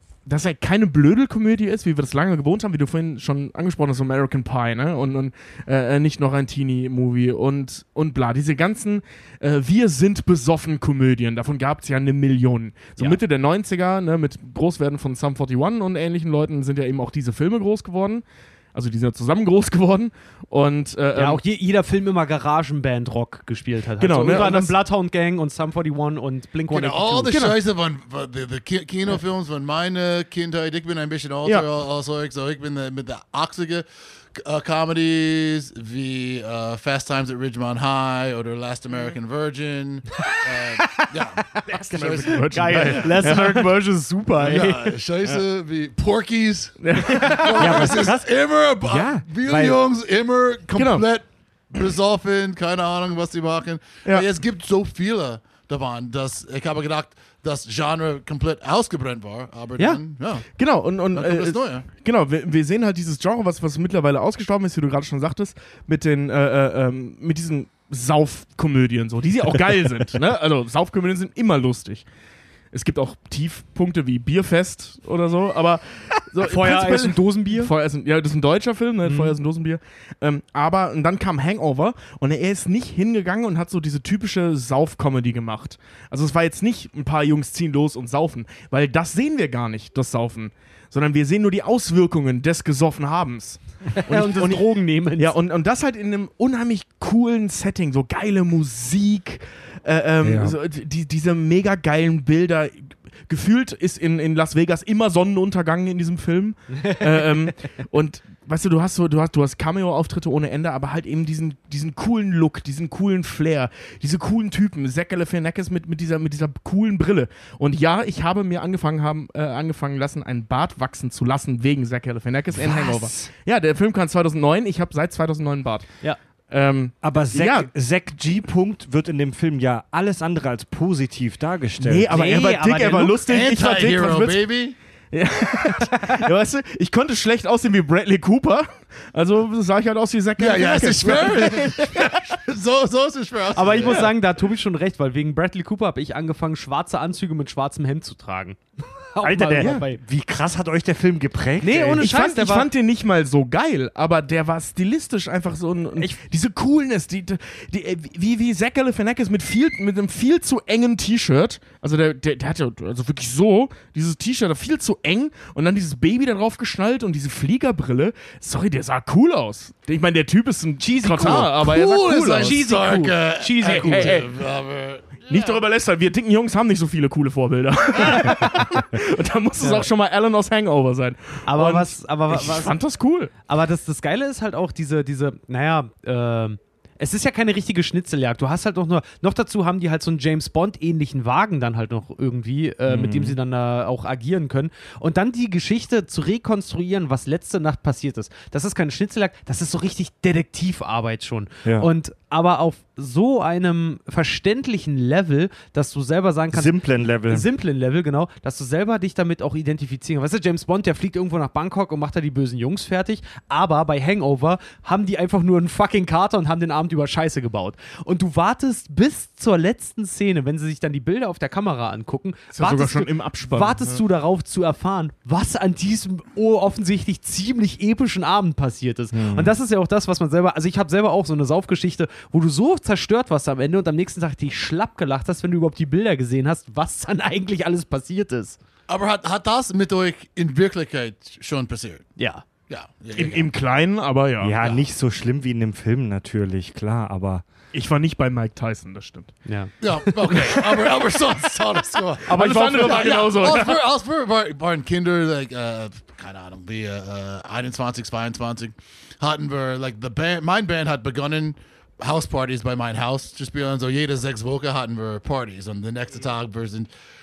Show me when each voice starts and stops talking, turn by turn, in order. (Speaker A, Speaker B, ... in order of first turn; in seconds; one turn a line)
Speaker A: 0.3-21.4
Speaker B: 21.1-27.4
Speaker A: 24.0-24.8
Speaker C: 26.7-43.1
Speaker A: 27.3-27.6
Speaker B: 40.2-45.0
Speaker A: 41.8-43.7
Speaker C: 44.4-60.5
Speaker A: 46.8-47.8
Speaker D: 47.5-48.3
Speaker D: 48.8-49.8
Speaker A: 50.8-51.0
Speaker A: 60.6-72.0
Speaker C: 61.1-61.9
Speaker A: 72.7-94.7
Speaker B: 76.4-77.7
Speaker B: 79.0-79.4
Speaker B: 94.0-95.3
Speaker A: 95.2-125.9
Speaker D: 100.2-100.6
Speaker B: 106.8-107.3
Speaker D: 122.6-123.3
Speaker A: 126.5-127.7
Speaker D: 127.0-132.1
Speaker A: 131.8-134.4
Speaker B: 132.1-133.2
Speaker C: 133.3-134.8
Speaker A: 135.1-142.2
Speaker C: 140.4-144.1
Speaker B: 143.5-150.0
Speaker A: 143.9-144.1
Speaker D: 149.2-152.1
Speaker B: 151.6-152.7
Speaker A: 151.9-172.6
Speaker B: 170.8-174.3
Speaker C: 171.6-175.1
Speaker A: 173.6-174.3
Speaker A: 175.3-183.3
Speaker B: 179.6-179.9
Speaker B: 181.5-182.8
Speaker B: 183.5-238.6
Speaker D: 192.9-193.4
Speaker D: 206.5-207.4
Speaker A: 222.5-224.0
Speaker D: 229.1-229.5
Speaker C: 238.9-242.1
Speaker B: 242.2-242.4
Speaker C: 242.7-243.5
Speaker A: 243.2-244.6
Speaker D: 244.4-247.4
Speaker A: 247.7-249.3
Speaker B: 249.5-250.7
Speaker C: 249.8-266.9
Speaker A: 250.3-250.9
Speaker B: 252.3-253.2
Speaker A: 252.3-253.8